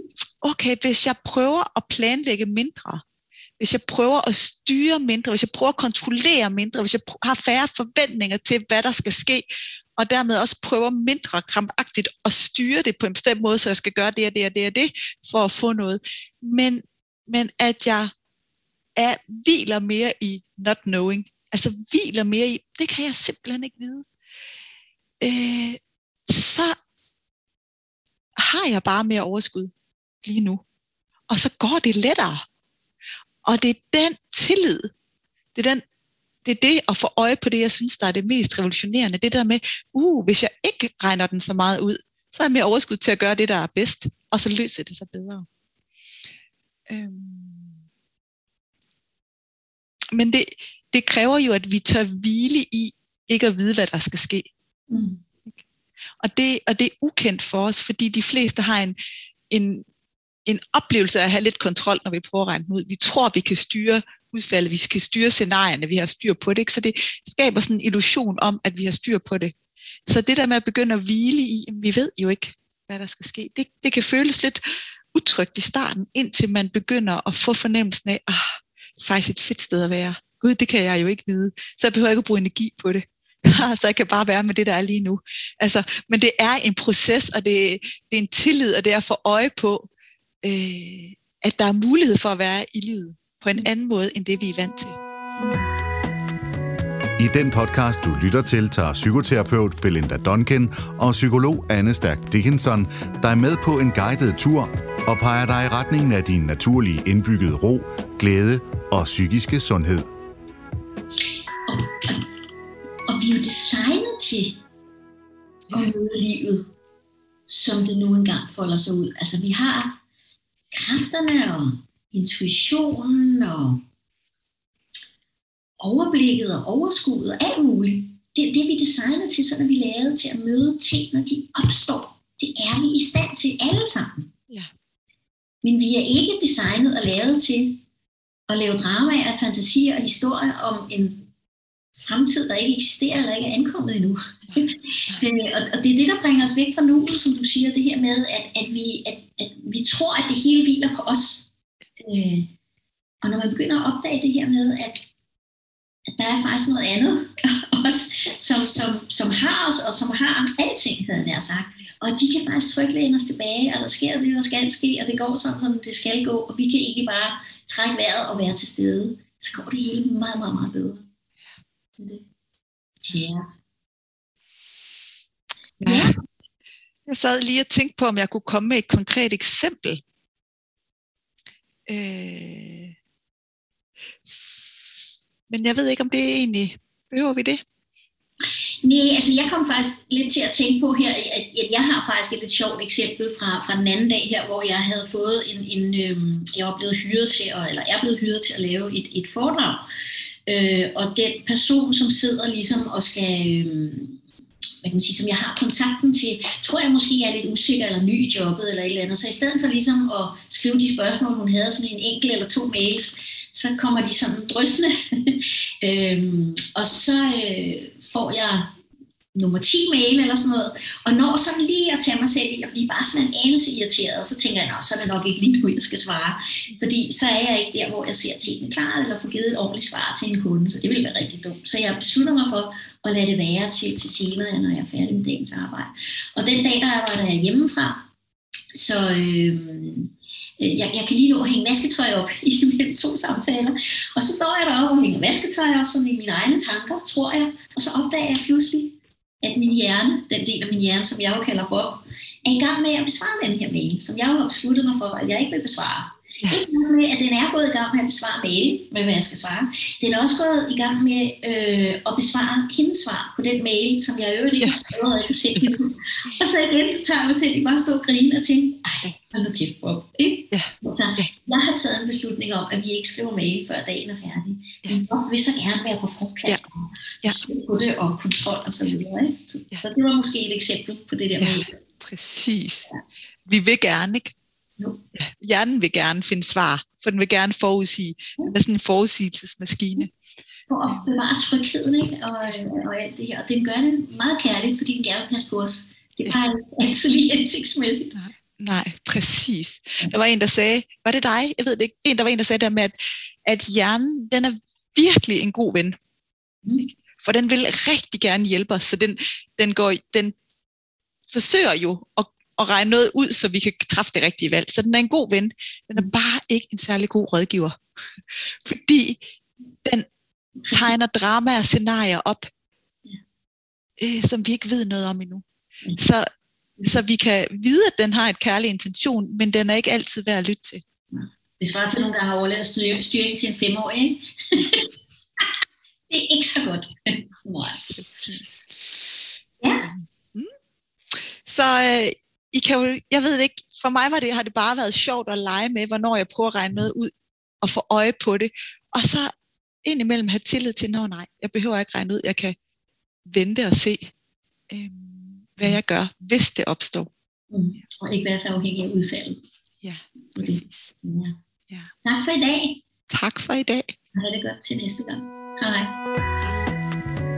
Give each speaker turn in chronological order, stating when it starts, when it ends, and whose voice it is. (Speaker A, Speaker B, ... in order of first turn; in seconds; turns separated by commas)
Speaker A: 0.4-3.0, Speaker A: 3.6-9.4, Speaker A: 10.0-18.1, Speaker A: 19.0-24.1, Speaker A: 25.2-26.7, Speaker A: 28.4-29.7, Speaker A: 30.2-30.6, Speaker A: 31.3-32.4, Speaker A: 33.4-34.9, Speaker A: 35.5-35.8, Speaker A: 36.4-45.5, Speaker A: 46.9-47.8, Speaker A: 50.1-54.5, Speaker B: 54.9-55.2, Speaker A: 56.2-59.0, Speaker A: 59.5-59.8, Speaker A: 60.5-69.5, Speaker A: 70.1-74.6, Speaker A: 75.1-89.9, Speaker A: 90.4-95.0, Speaker C: 97.2-110.0, Speaker B: 111.7-112.2, Speaker B: 113.1-114.6, Speaker B: 115.7-116.7, Speaker B: 117.5-120.0, Speaker B: 120.7-123.8, Speaker B: 125.8-134.3, Speaker B: 135.6-137.8, Speaker B: 138.5-141.3, Speaker B: 141.9-152.5, Speaker A: 144.5-145.3, Speaker B: 153.2-155.0, Speaker B: 156.1-171.0, Speaker B: 172.0-172.2, Speaker B: 173.0-173.4, Speaker B: 175.8-176.1, Speaker A: 175.8-176.1, Speaker A: 177.1-180.0, Speaker A: 181.9-182.9, Speaker A: 184.3-184.8, Speaker A: 185.5-187.6, Speaker B: 188.8-199.8, Speaker B: 200.5-204.2, Speaker B: 204.8-218.7, Speaker B: 219.3-238.1, Speaker B: 238.7-281.7, Speaker A: 270.5-271.3, Speaker A: 281.4-282.9, Speaker A: 283.4-284.3, Speaker A: 285.1-290.1, Speaker B: 290.7-298.1, Speaker A: 290.8-291.1, Speaker A: 298.1-302.9, Speaker A: 303.4-306.0, Speaker A: 306.8-310.3, Speaker A: 311.3-317.8, Speaker A: 318.6-319.2, Speaker B: 320.6-320.9, Speaker A: 320.7-322.5, Speaker A: 324.0-325.4, Speaker A: 326.0-326.2, Speaker A: 326.8-330.8, Speaker B: 331.1-334.9, Speaker B: 336.1-337.9, Speaker A: 337.9-339.1, Speaker A: 339.8-340.5, Speaker A: 341.4-347.1, Speaker A: 347.6-349.3, Speaker A: 349.8-352.5, Speaker A: 353.2-354.1, Speaker A: 354.7-357.1, Speaker B: 357.5-359.4, Speaker A: 359.8-360.9, Speaker B: 360.3-361.3, Speaker B: 362.0-362.8, Speaker A: 363.1-363.9, Speaker B: 364.1-366.0, Speaker A: 366.4-366.7